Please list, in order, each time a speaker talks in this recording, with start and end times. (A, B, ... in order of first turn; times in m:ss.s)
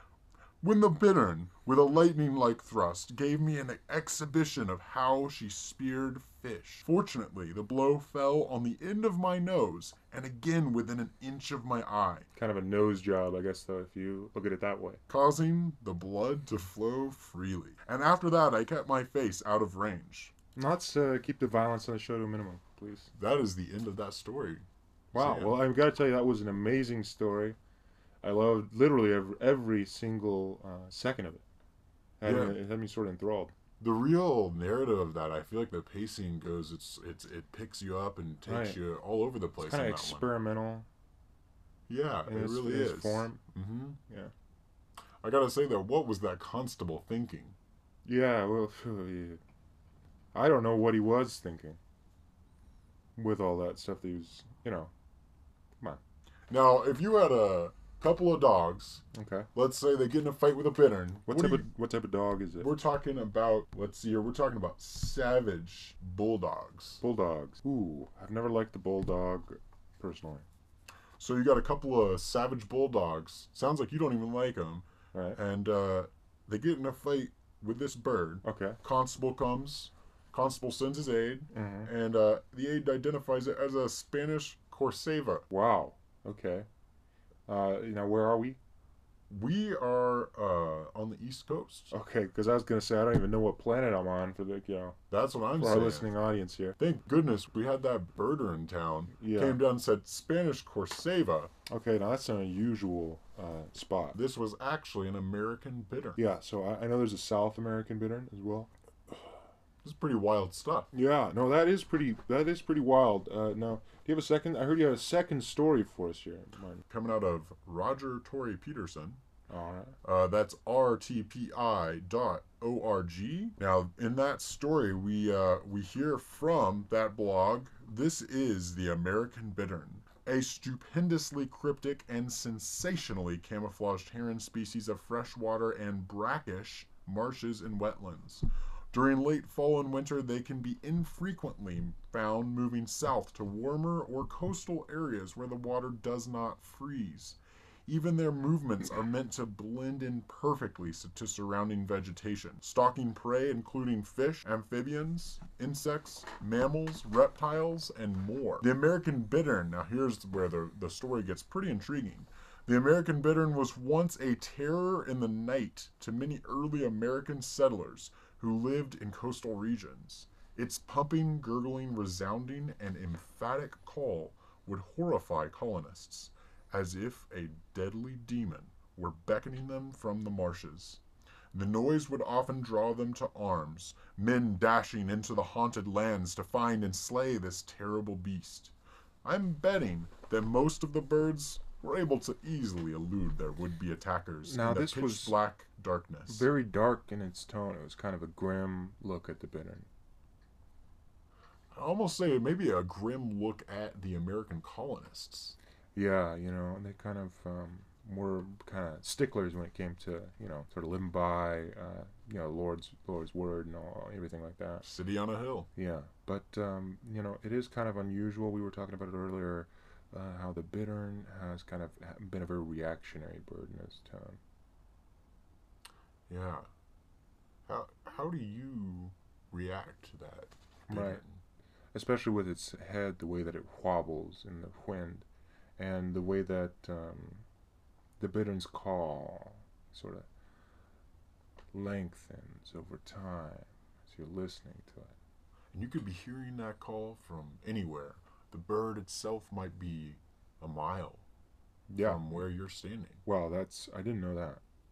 0:00.6-0:12.3 A
0:12.4-0:15.0 B
0:15.1-0:20.3 A
0:20.6-0:23.1 B
0:23.1-0:25.6 A
0:25.1-0:27.6 B
0:28.2-0:31.4 B
0:32.2-0:33.5 B
0:32.2-0:32.6 A
0:33.8-0:40.3 A
0:38.5-0:38.8 B
0:39.6-0:40.8 B
0:41.9-0:44.0 A
0:42.3-0:43.4 B
0:45.2-0:47.6 A
0:48.0-0:49.4 B
0:50.3-0:51.8 B
0:53.2-0:54.9 B
0:56.5-0:59.0 A
0:59.1-0:59.5 B
0:59.5-1:01.7 A
1:01.3-1:02.7 B
1:02.6-1:07.0 A
1:07.0-1:10.4 B
1:11.2-1:14.8 A
1:15.4-1:25.4 A
1:18.4-1:18.8 B
1:21.5-1:21.9 B
1:25.5-1:26.7 B
1:27.5-1:28.6 B
1:29.3-1:31.9 A
1:31.9-1:35.0 B
1:35.1-1:36.1 A
1:35.6-1:36.8 B
1:36.8-1:41.5 A
1:39.2-1:39.6 B
1:41.7-1:44.2 B
1:44.1-1:46.2 A
1:46.2-1:48.7 B
1:49.8-1:50.9 A
1:50.9-1:56.8 B
1:56.9-1:59.2 A
1:59.5-2:00.0 B
2:00.0-3:01.0 A
3:01.5-3:08.7 A
3:09.2-3:16.5 A
3:14.4-3:15.3 B
3:16.3-3:19.9 B
3:21.7-3:25.6 A
3:25.9-3:34.8 B
3:34.8-3:35.7 A
3:35.8-3:44.4 B
3:46.3-3:46.7 A
3:47.7-3:51.4 A
3:50.9-3:51.2 B
3:51.9-3:55.2 B
3:55.8-3:57.4 B
3:58.2-4:00.3 B
4:01.7-4:05.1 B
4:05.7-4:11.2 A
4:11.9-4:12.4 B
4:12.0-4:13.2 A
4:13.2-4:14.6 B